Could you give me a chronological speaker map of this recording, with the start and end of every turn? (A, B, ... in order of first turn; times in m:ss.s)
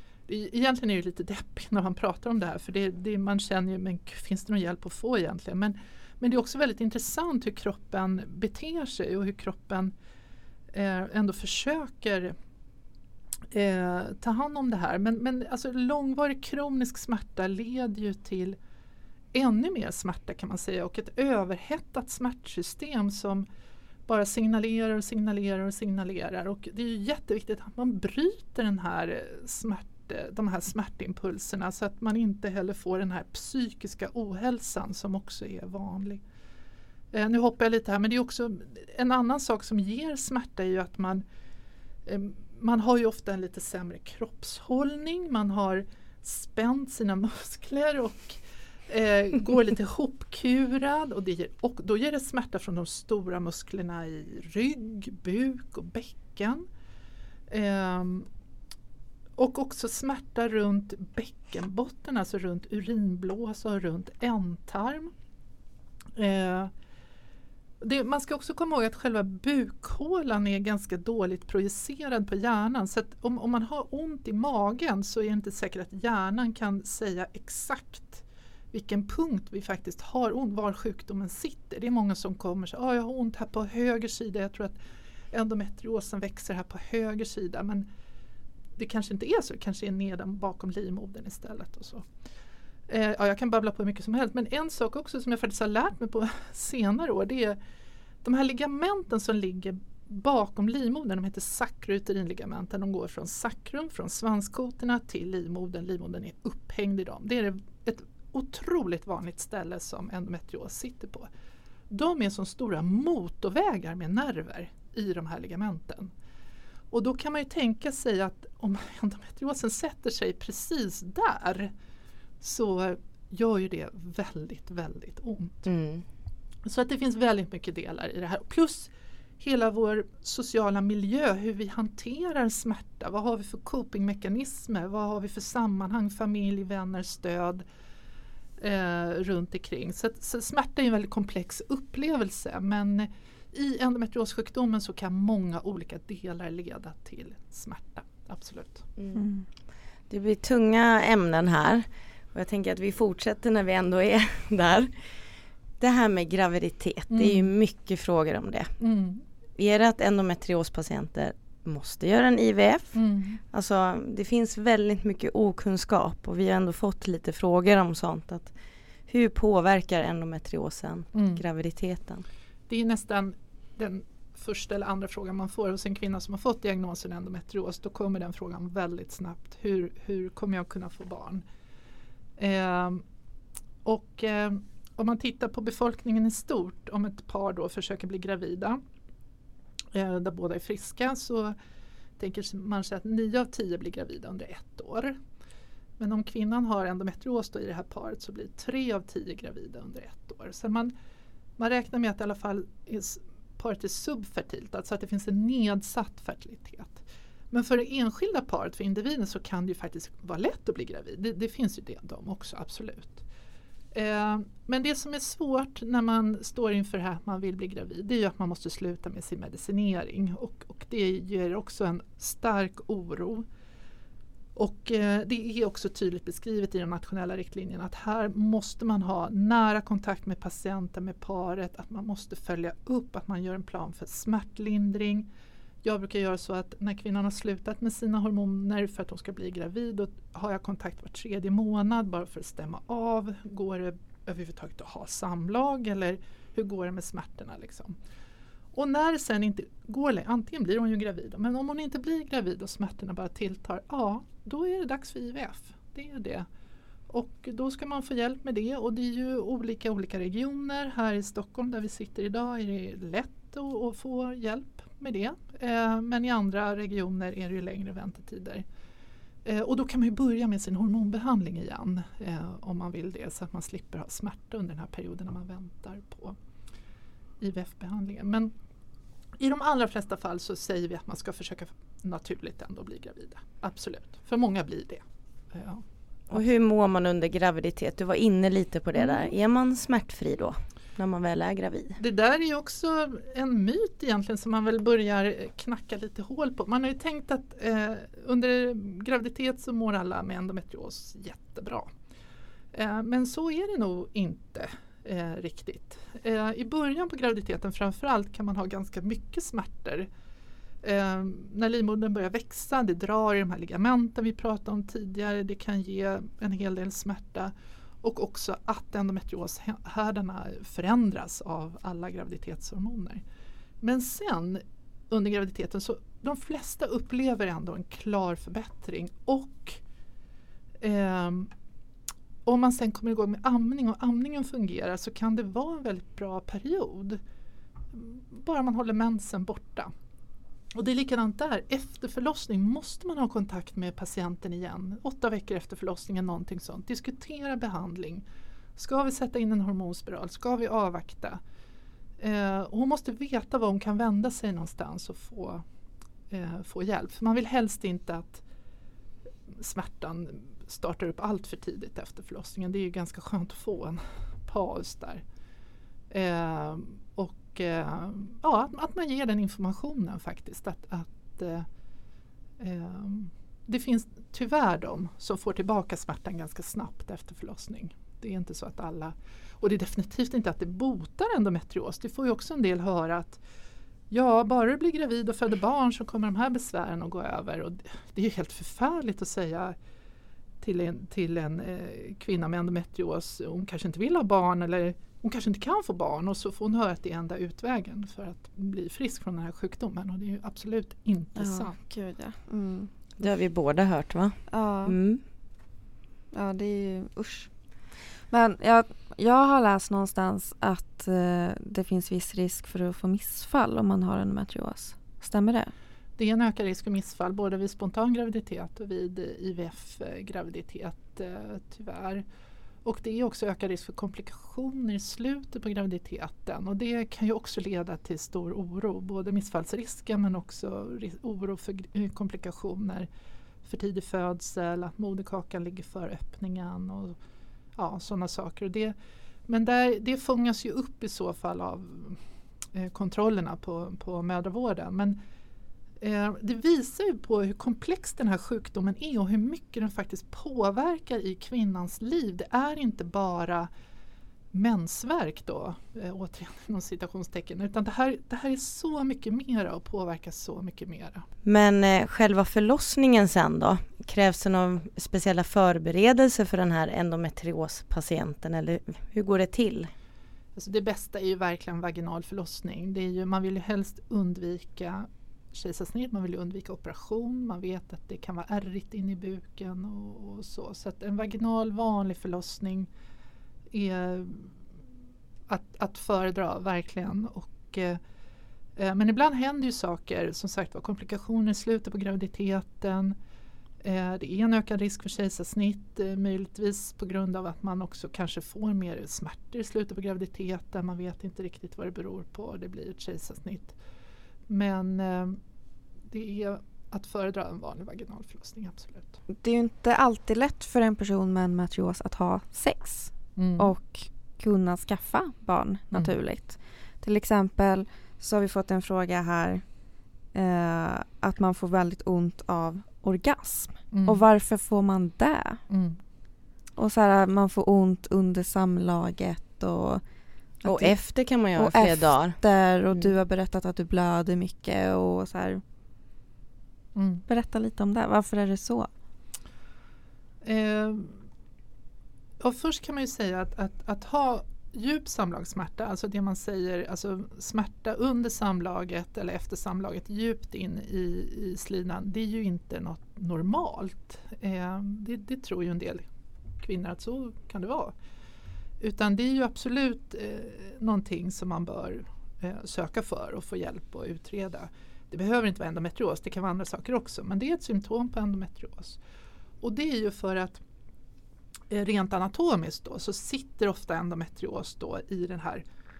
0:00.3-0:09.9 A
0:10.7-0:12.3 A
0:13.5-0:18.6 A
0:19.3-0:23.4 A
0:24.1-0:36.2 A
0:37.1-0:41.2 A
0:42.0-0:56.6 A
0:57.5-0:58.3 A
0:59.4-1:05.1 A
1:06.2-1:06.7 A
1:07.8-1:24.8 A
1:25.3-1:27.8 A
1:28.8-1:32.0 A
1:32.9-1:37.6 A
1:38.2-1:51.3 A
1:51.9-1:56.1 A
1:56.9-2:01.7 A
2:02.4-2:05.7 A
2:05.6-2:06.0 B
2:06.6-2:17.6 A
2:18.6-2:28.8 A
2:29.1-2:29.4 C
2:30.1-2:34.9 B
2:35.8-2:38.7 B
2:37.1-2:37.5 A
2:38.8-2:39.2 A
2:39.6-2:43.0 B
2:42.9-2:43.4 A
2:43.5-2:48.5 B
2:49.1-2:52.2 B
2:51.1-2:51.4 A
2:52.7-3:01.4 A
3:02.4-3:03.0 A
3:03.8-3:08.8 A
3:09.9-3:11.5 A
3:12.2-3:15.2 A
3:16.0-3:20.9 A
3:21.6-3:33.2 A
3:33.9-3:43.4 A
3:44.6-3:55.3 A
3:55.8-4:08.0 A
4:08.7-4:16.5 A
4:17.1-4:28.6 A
4:29.4-4:36.4 A
4:37.4-4:38.5 A
4:39.4-4:45.8 A
4:46.3-4:52.0 B
4:52.0-5:01.9 A
5:02.7-5:10.1 A
5:10.8-5:23.2 A
5:23.8-5:29.8 A
5:30.8-5:31.5 A
5:32.4-5:37.2 A
5:37.9-5:39.9 A
5:40.7-5:48.2 A
5:48.8-5:51.4 A
5:52.2-5:55.6 A
5:56.3-5:58.4 A
5:59.5-6:05.2 A
6:06.1-6:11.7 A
6:12.6-6:23.4 A
6:24.1-6:29.8 A
6:30.6-6:41.8 A
6:41.4-6:42.9 C
6:43.2-6:45.2 B
6:44.5-6:45.0 C
6:46.3-6:47.5 C
6:48.3-6:55.7 C
6:56.2-7:02.2 A
7:02.8-7:13.1 A
7:13.6-7:17.2 A
7:17.8-7:18.9 A
7:19.5-7:22.2 A
7:22.7-7:25.2 A
7:26.0-7:33.7 A
7:34.5-7:41.2 A
7:41.4-7:49.9 B
7:50.6-8:02.9 A
8:03.7-8:04.5 A
8:05.5-8:08.0 A
8:08.8-8:13.1 A
8:13.8-8:23.8 A
8:24.5-8:25.4 A
8:26.1-8:29.2 A
8:29.3-8:39.6 C
8:33.4-8:33.7 A
8:40.3-8:45.6 C
8:43.9-8:44.2 A
8:45.7-8:46.0 A
8:46.8-8:50.0 C
8:50.6-8:51.0 C
8:50.6-8:52.4 B
8:51.5-8:55.6 C
8:56.9-8:57.2 A
8:57.3-8:58.9 C
9:00.4-9:01.2 A
9:02.4-9:16.0 A
9:16.6-9:17.9 A
9:18.8-9:29.0 A
9:29.6-9:30.6 A
9:31.7-9:35.6 A